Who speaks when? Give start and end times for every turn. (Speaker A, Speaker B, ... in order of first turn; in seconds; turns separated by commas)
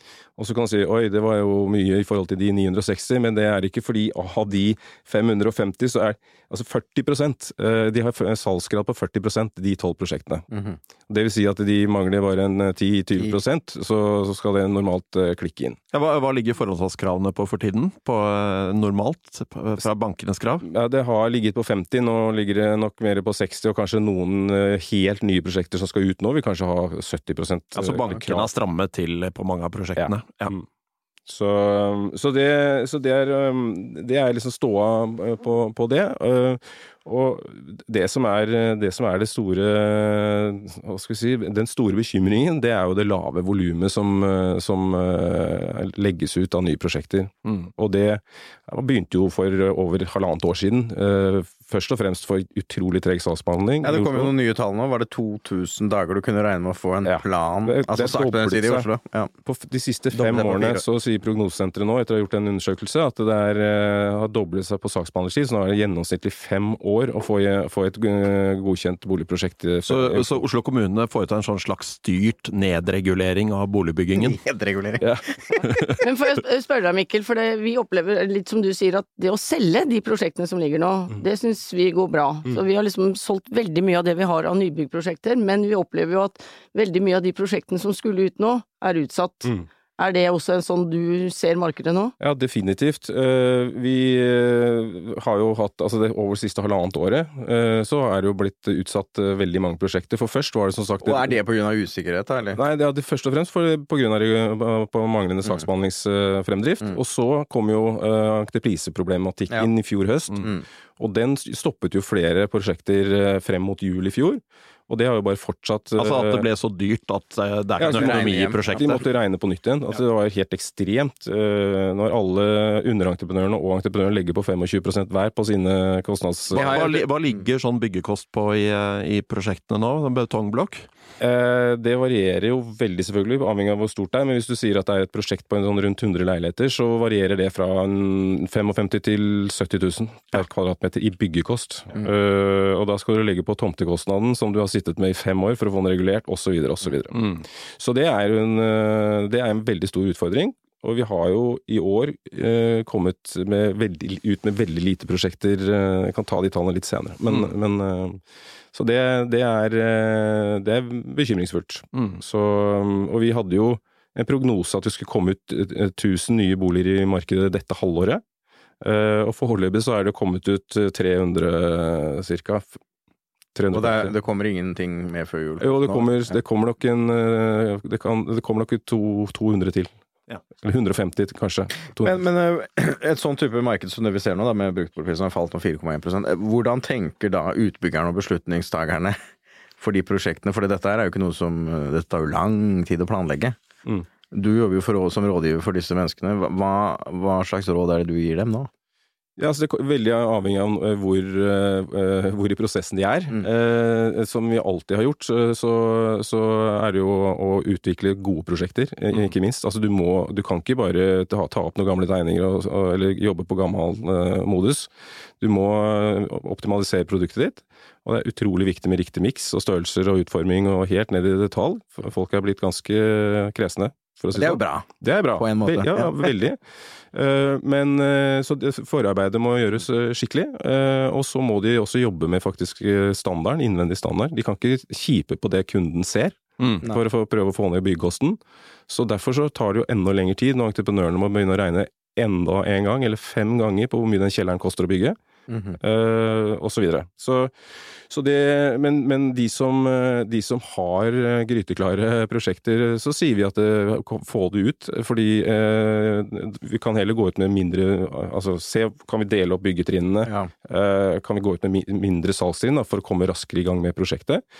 Speaker A: 0.4-10.4, Speaker B: 10.5-10.8, Speaker A: 11.1-15.8, Speaker C: 15.9-20.6, Speaker A: 20.6-28.5, Speaker C: 27.8-30.5, Speaker A: 30.0-30.6, Speaker A: 31.3-54.3, Speaker B: 53.8-59.3, Speaker A: 57.0-58.9, Speaker A: 59.5-70.4, Speaker B: 60.1-60.8, Speaker C: 69.9-74.4, Speaker B: 74.1-75.1, Speaker A: 75.0-75.9, Speaker D: 76.0-92.1, Speaker A: 92.2-101.3, Speaker B: 101.0-102.6, Speaker A: 102.5-116.5, Speaker C: 116.0-119.0, Speaker A: 117.8-127.0, Speaker B: 117.9-119.0, Speaker B: 126.5-127.4, Speaker C: 126.5-130.8, Speaker A: 131.2-158.2, Speaker C: 147.1-147.4, Speaker A: 158.7-168.2, Speaker C: 161.9-162.2, Speaker A: 168.8-172.7, Speaker A: 173.5-174.1, Speaker B: 173.7-176.1, Speaker A: 175.6-179.9, Speaker A: 180.6-182.2, Speaker B: 182.0-189.1, Speaker B: 189.8-193.6, Speaker B: 194.3-198.7, Speaker A: 199.4-214.9, Speaker A: 215.4-226.6, Speaker B: 224.3-226.3, Speaker A: 227.1-245.2, Speaker B: 245.5-245.8, Speaker A: 245.8-247.5, Speaker A: 248.1-264.4, Speaker B: 260.2-260.5